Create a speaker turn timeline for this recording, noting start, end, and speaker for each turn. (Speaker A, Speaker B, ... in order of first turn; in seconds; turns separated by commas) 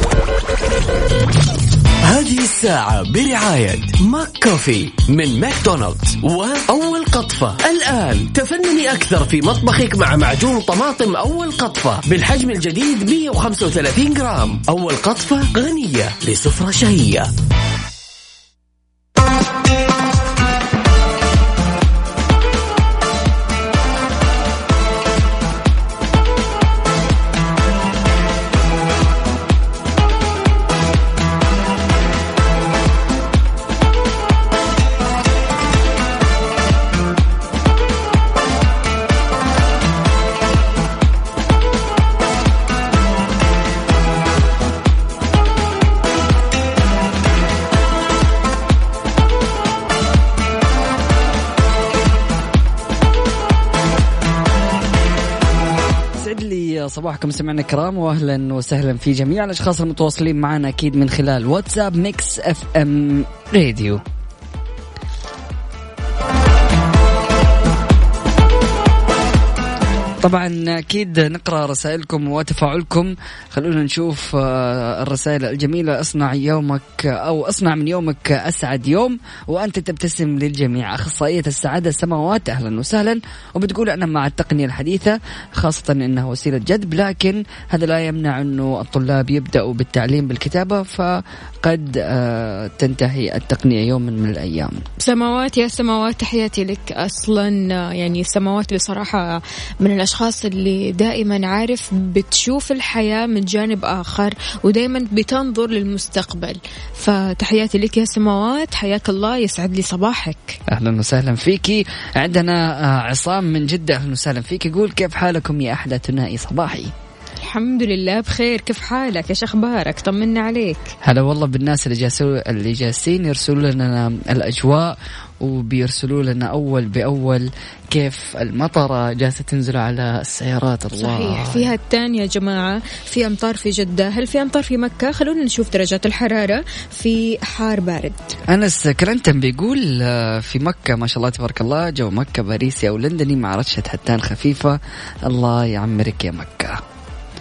Speaker A: 2.0-17.3, Speaker B: 56.2-64.0, Speaker B: 70.2-94.8, Speaker C: 95.0-110.6, Speaker B: 110.7-116.9, Speaker C: 117.4-120.9, Speaker B: 121.0-131.7, Speaker C: 130.9-138.3, Speaker B: 138.5-146.8